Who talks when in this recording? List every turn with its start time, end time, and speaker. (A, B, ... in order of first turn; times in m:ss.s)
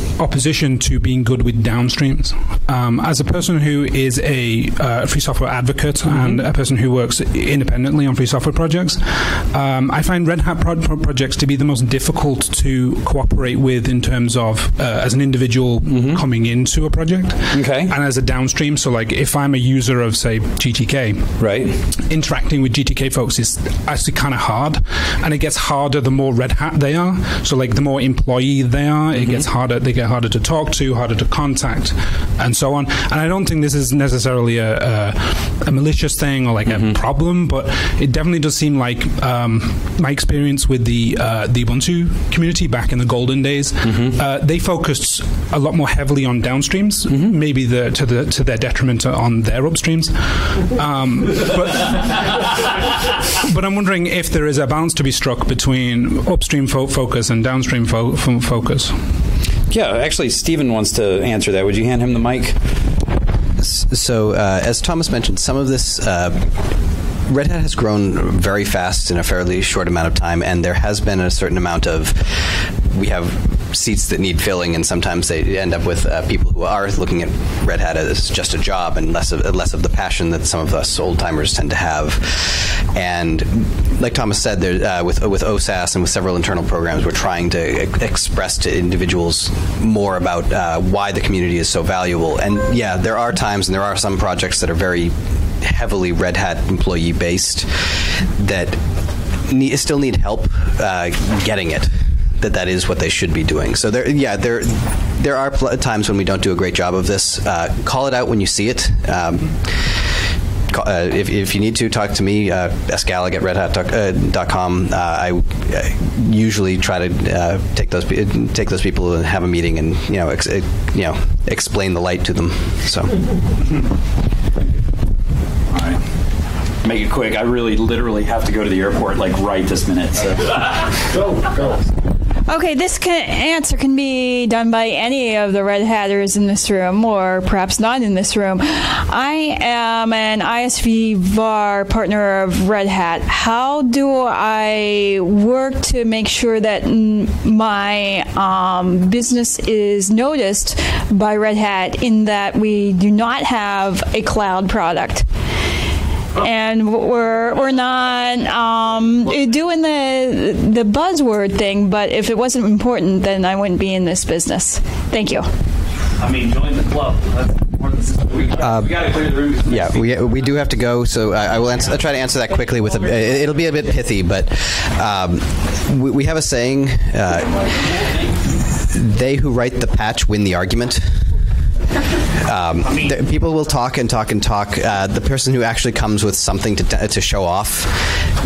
0:00.2-0:21.4 A
0:06.1-0:06.4 B
0:15.8-0:16.2 B
0:17.5-0:17.9 B
0:21.4-0:21.8 B
0:22.1-0:52.7 A
0:29.1-0:29.4 B
0:36.6-0:37.0 B
0:43.8-0:44.2 B
0:47.1-0:47.4 B
0:53.4-0:59.0 A
0:59.7-1:02.6 B
1:03.6-1:06.5 C
1:07.3-1:12.3 C
1:12.9-1:38.8 C
1:39.5-1:49.9 C
1:50.7-2:03.2 C
2:05.7-2:06.0 B
2:06.8-2:10.9 B
2:12.5-2:35.3 D
2:36.4-2:45.5 D
2:46.2-2:50.3 E
2:48.6-2:48.9 C
2:49.6-2:57.9 C
2:51.8-2:53.9 E
2:58.9-3:01.1 C
3:02.4-3:08.0 C
3:02.8-3:03.1 E